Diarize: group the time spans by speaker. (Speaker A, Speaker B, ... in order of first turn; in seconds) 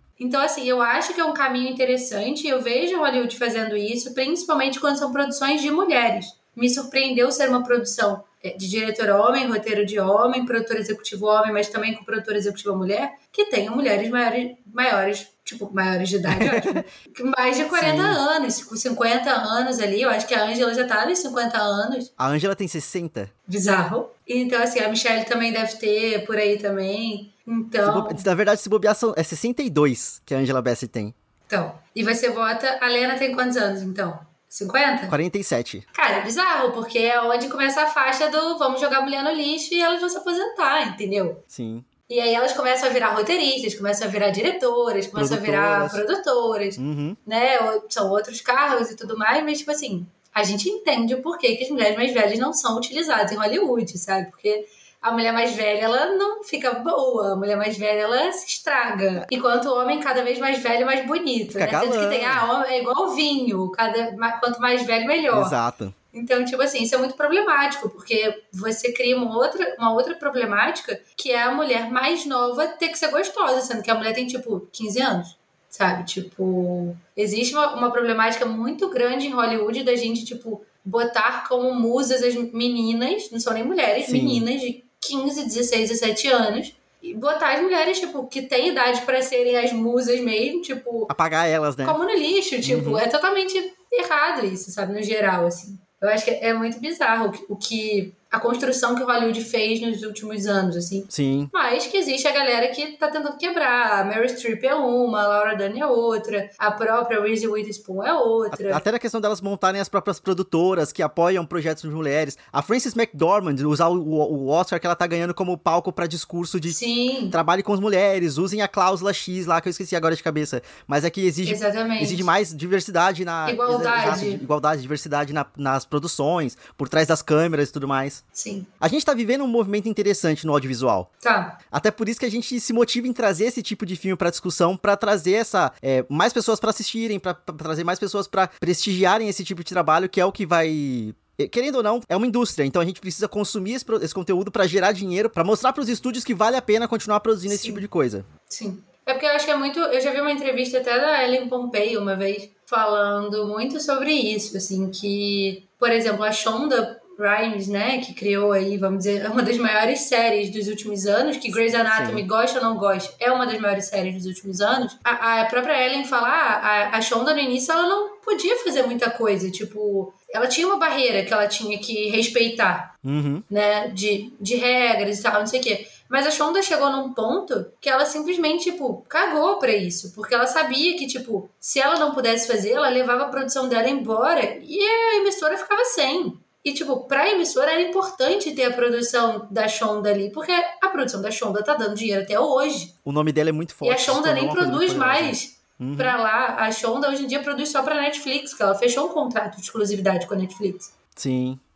Speaker A: 0.2-22.1, 23.5-28.2, 31.5-35.1, 35.9-41.4, 42.1-65.6, 66.1-91.1, 91.8-108.8, 116.7-117.4, 121.4-122.3, 123.5-124.4, 128.3-128.7, 131.2-131.6, 147.5-147.8, 148.5-172.9, 173.5-192.9, 193.8-200.9
Speaker B: 16.3-16.9, 17.7-18.2, 22.2-23.3, 27.8-31.1, 35.1-35.8, 41.5-41.9, 45.1-46.0, 46.8-47.2, 61.5-62.5, 65.3-66.0, 84.0-84.5, 91.1-92.0, 92.6-93.0, 101.1-101.5, 108.5-116.8, 117.3-128.2, 128.8-131.1, 131.7-148.3, 161.7-162.2, 173.1-173.4, 193.1-196.2, 201.2-201.6